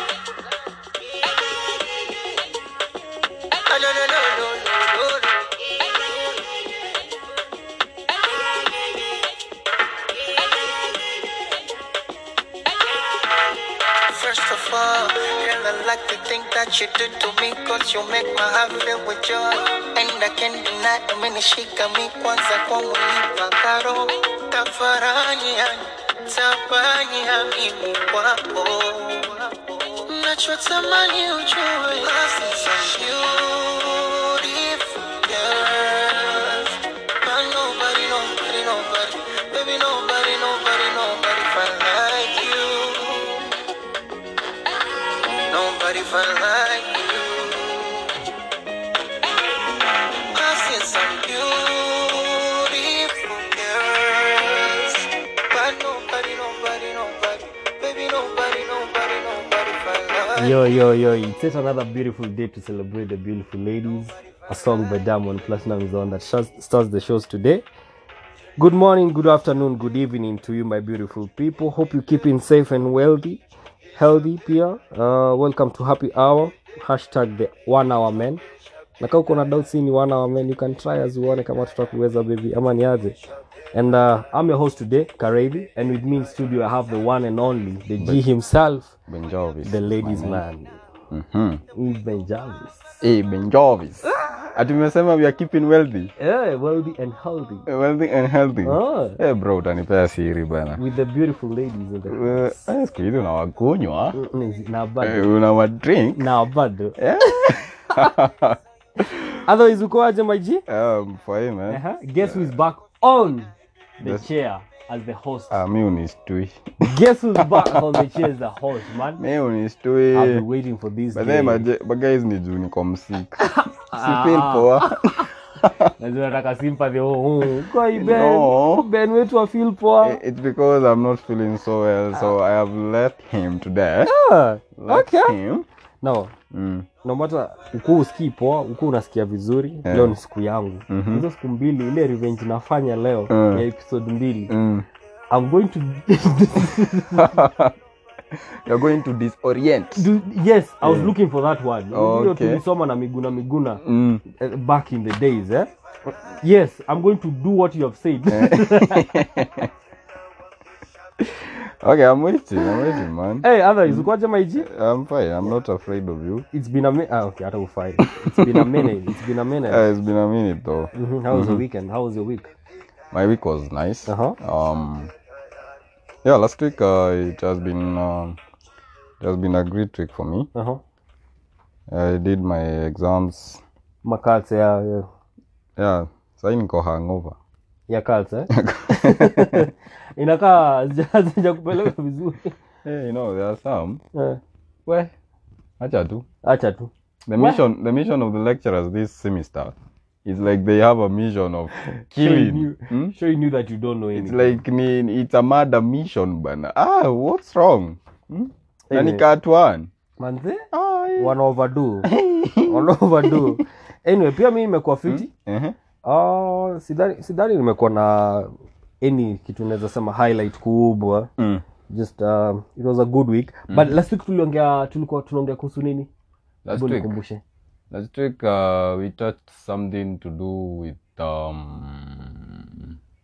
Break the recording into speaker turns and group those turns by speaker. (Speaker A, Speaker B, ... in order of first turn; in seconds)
Speaker A: 1.2-2.1, 3.7-6.8, 8.4-9.1, 10.3-11.0, 14.1-43.6, 45.3-48.2, 50.3-60.6
Speaker B: 60.4-67.7, 68.6-73.4, 74.0-78.4, 79.0-83.2, 83.7-89.0, 89.6-90.8, 91.7-93.0, 94.2-94.5, 96.2-97.7, 98.6-99.2, 100.8-102.6, 104.1-105.3, 106.2-107.6, 109.5-110.6, 111.7-115.6, 116.8-119.2, 120.1-121.7, 123.4-124.7, 126.0-130.2, 134.1-135.4, 136.0-136.3, 137.0-144.5, 145.3-147.5, 149.9-159.1, 163.4-164.7, 166.5-169.8, 170.9-172.5, 174.1-174.4, 180.5-180.8, 184.0-185.1, 187.9-192.6, 194.1-194.4, 196.4-197.6, 201.8-204.6, 208.9-209.2, 210.2-212.1, 212.6-215.3, 216.1-221.3, 221.9-226.1, 226.7-227.4
Speaker C: 89.1-90.4, 91.1-91.6, 93.0-96.1, 97.7-100.8, 102.1-104.2, 105.0-106.3, 107.0-109.4, 110.7-112.5, 114.0-114.3, 115.5-118.3, 119.2-120.5, 121.2-123.4, 123.9-125.9, 127.9-128.9, 130.0-134.1, 134.8-135.7, 136.5-136.9, 139.9-140.2, 140.9-141.2, 143.3-143.7, 144.5-144.9, 147.2-147.7, 148.3-150.1, 150.8-151.1, 151.9-152.6, 153.8-154.2, 158.3-159.7, 161.2-164.1, 164.6-166.5, 168.3-168.9, 169.7-171.6, 173.1-175.1, 176.2-178.4, 179.2-180.5, 181.9-183.6, 185.8-187.4, 188.5-189.7, 192.8-194.0, 194.9-195.1, 195.8-196.2, 197.3-199.7, 200.2-203.1, 204.2-209.9, 210.7-211.3, 212.0-213.6, 215.1-215.8, 221.4-221.6, 226.7-227.1, 227.9-232.9